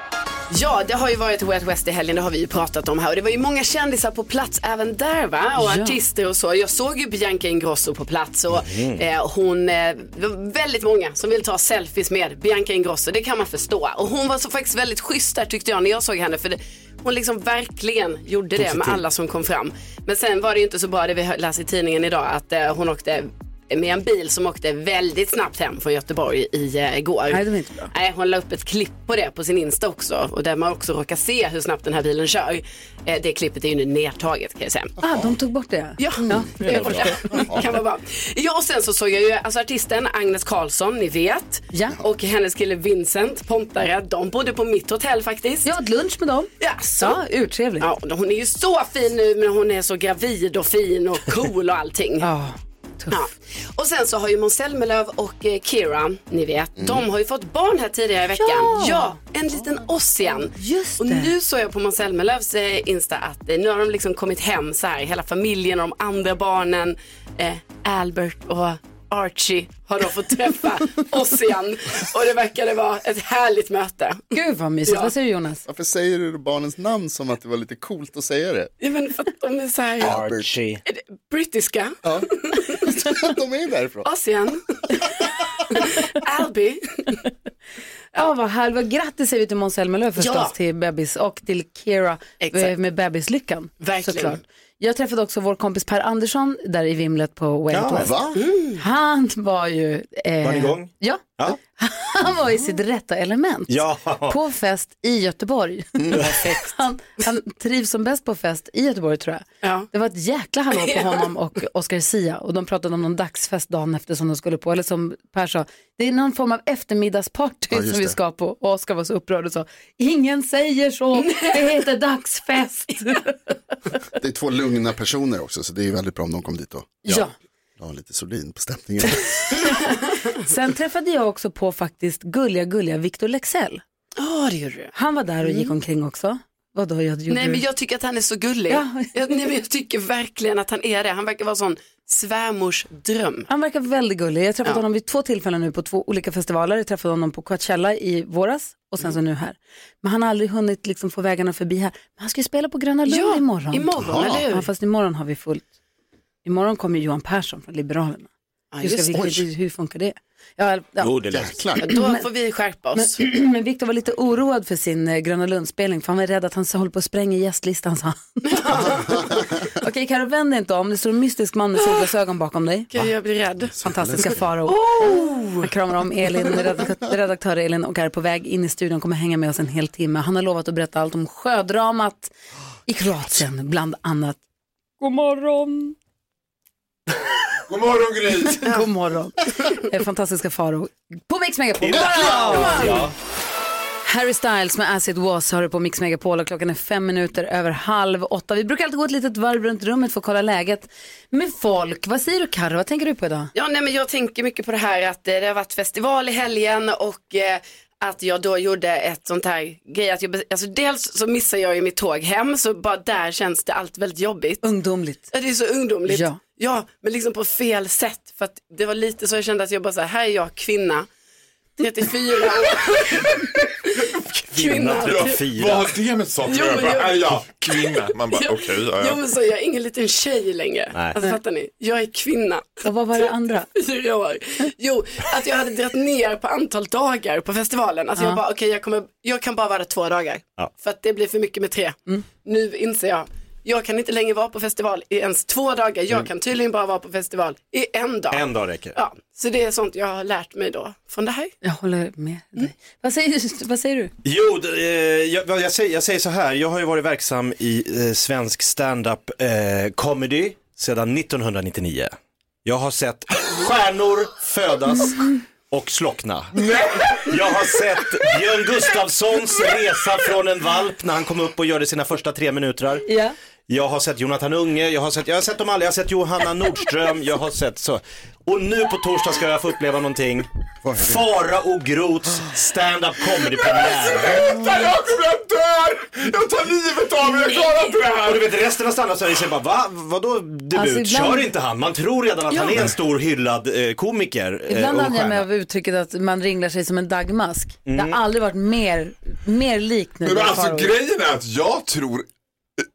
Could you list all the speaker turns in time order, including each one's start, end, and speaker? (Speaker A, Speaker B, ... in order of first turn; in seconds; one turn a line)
Speaker A: 0.5-35.0
Speaker B: 5.6-6.0
Speaker C: 8.6-9.0
Speaker C: 18.6-19.0
Speaker B: 27.3-27.9
Speaker B: 35.0-37.1
Speaker A: 36.0-45.7
Speaker D: 36.2-37.6
Speaker B: 41.7-42.0
Speaker B: 45.6-47.9
Speaker A: 46.6-47.2
Speaker A: 47.8-52.3
Speaker B: 52.2-53.2
Speaker A: 53.1-74.3
Speaker D: 56.8-57.0
Speaker B: 58.4-59.2
Speaker B: 60.5-61.3
Speaker B: 74.3-75.6
Speaker A: 74.9-75.1
Speaker D: 75.7-78.7
Speaker A: 78.8-80.2
Speaker D: 80.0-80.5
Speaker C: 80.0-80.8
Speaker A: 80.8-82.9
Speaker D: 82.0-84.1
Speaker A: 84.0-87.1
Speaker B: 88.1-123.3
Speaker A: 90.2-90.5
Speaker A: 92.4-92.7
Speaker A: 93.8-94.4
Speaker C: 97.7-98.1
Speaker D: 98.0-98.4
Speaker A: 98.3-98.8
Speaker C: 100.4-101.6
Speaker C: 103.7-104.4
Speaker D: 106.0-106.3
Speaker A: 109.6-109.9
Speaker A: 110.8-111.0
Speaker D: 117.7-118.2
Speaker A: 121.2-121.6
Speaker D: 124.2-127.3
Speaker B: 127.0-127.3
Speaker D: 127.8-129.6
Speaker A: 129.7-130.3
Speaker B: 130.4-133.8
Speaker A: 134.2-134.9
Speaker B: 134.9-137.6
Speaker A: 135.4-135.7
Speaker A: 137.3-143.5
Speaker B: 138.7-139.1
Speaker B: 143.5-155.6
Speaker A: 153.1-154.7
Speaker D: 153.9-154.4
Speaker B: 156.4-158.3
Speaker A: 158.7-159.4
Speaker B: 158.8-161.1
Speaker C: 161.0-161.6
Speaker D: 161.3-161.9
Speaker B: 161.8-162.2
Speaker A: 161.8-163.2
Speaker B: 162.9-169.0
Speaker A: 168.4-169.4
Speaker D: 169.1-169.4
Speaker B: 169.8-172.9
Speaker A: 172.9-173.7
Speaker D: 173.6-174.4
Speaker B: 173.8-182.3
Speaker A: 174.7-175.7
Speaker A: 176.3-176.7
Speaker B: 182.9-184.4
Speaker B: 185.0-185.9
Speaker E: 187.7-188.8
Speaker B: 188.6-193.0
Speaker C: 191.8-193.1
Speaker A: 192.4-193.0
Speaker B: 194.0-203.5
Speaker A: 203.5-214.7
Speaker B: 214.6-215.3
Speaker A: 215.3-221.1
Speaker B: 216.1-216.4
Speaker A: 221.8-225.4
Speaker C: 224.5-225.9
Speaker E: 225.0-229.2
Speaker A: 226.4-251.5
Speaker B: 232.8-233.7
Speaker B: 238.2-238.4
Speaker C: 248.3-249.0
Speaker B: 251.6-254.1
Speaker C: 254.2-262.1
Speaker C: 262.6-266.5
Speaker E: 266.5-267.8
Speaker C: 267.2-273.0
Speaker B: 273.1-273.3
Speaker C: 273.7-284.4
Speaker D: 280.8-281.2
Speaker E: 283.6-288.5
Speaker C: 288.2-295.4
Speaker B: 290.7-291.5
Speaker A: 292.5-292.9
Speaker B: 294.7-300.9
Speaker C: 297.9-298.2
Speaker E: 300.2-302.3